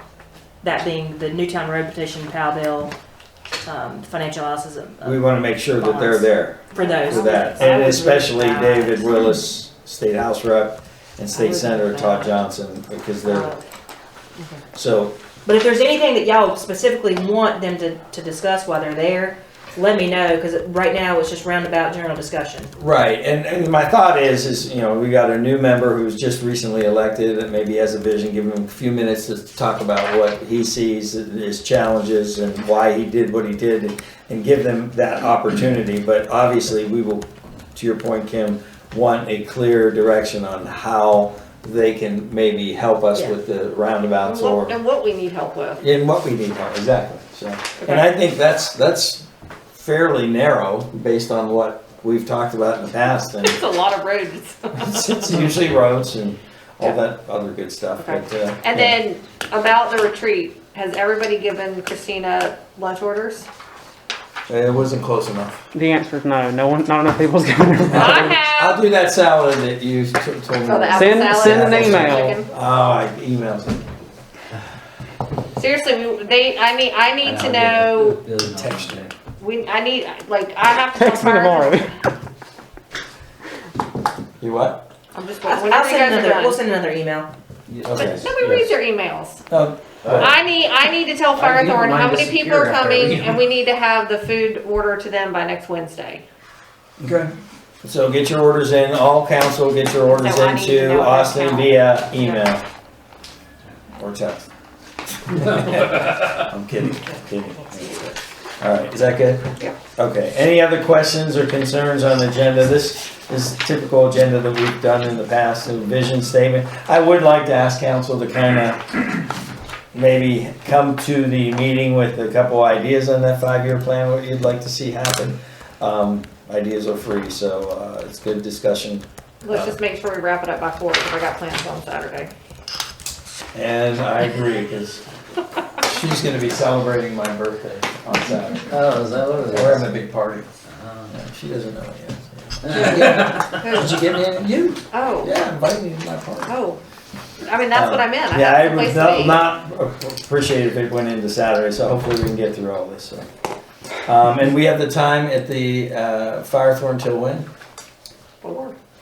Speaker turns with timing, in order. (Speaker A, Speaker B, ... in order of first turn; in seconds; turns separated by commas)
Speaker A: 0.6-2.9, Speaker A: 3.6-9.2, Speaker B: 5.0-13.5, Speaker C: 6.7-7.7, Speaker A: 11.3-12.3, Speaker C: 13.2-13.6, Speaker B: 14.7-15.2, Speaker A: 15.4-22.7, Speaker B: 22.8-44.8, Speaker C: 44.2-45.8, Speaker B: 45.8-53.6, Speaker C: 53.4-55.1, Speaker B: 54.7-59.0, Speaker C: 58.0-63.5, Speaker B: 64.5-65.6, Speaker D: 65.7-68.3, Speaker B: 67.8-73.9, Speaker C: 67.9-68.8, Speaker C: 70.6-72.5, Speaker D: 70.9-72.4, Speaker C: 75.5-78.2, Speaker E: 77.2-79.1, Speaker B: 78.5-79.0, Speaker C: 79.4-81.8, Speaker D: 80.9-82.0, Speaker B: 84.4-84.8, Speaker C: 85.1-86.6, Speaker A: 85.5-87.3, Speaker E: 87.7-88.7, Speaker B: 87.8-88.3, Speaker C: 87.9-89.4, Speaker B: 89.5-90.3, Speaker E: 90.0-90.3, Speaker C: 90.1-96.2, Speaker E: 91.4-92.4, Speaker E: 93.0-93.2, Speaker B: 97.0-97.3, Speaker B: 97.8-102.6, Speaker C: 100.1-102.4, Speaker B: 104.0-104.5, Speaker B: 105.3-119.2, Speaker B: 119.9-129.8, Speaker C: 129.4-132.3, Speaker B: 133.5-135.0, Speaker B: 135.8-138.8, Speaker E: 138.7-139.9, Speaker B: 139.5-140.5, Speaker B: 141.1-146.5, Speaker E: 142.7-143.4, Speaker C: 143.5-144.0, Speaker C: 144.9-145.3, Speaker C: 146.4-146.8, Speaker C: 147.4-149.4, Speaker B: 147.7-153.2, Speaker B: 154.1-157.5, Speaker C: 158.4-158.7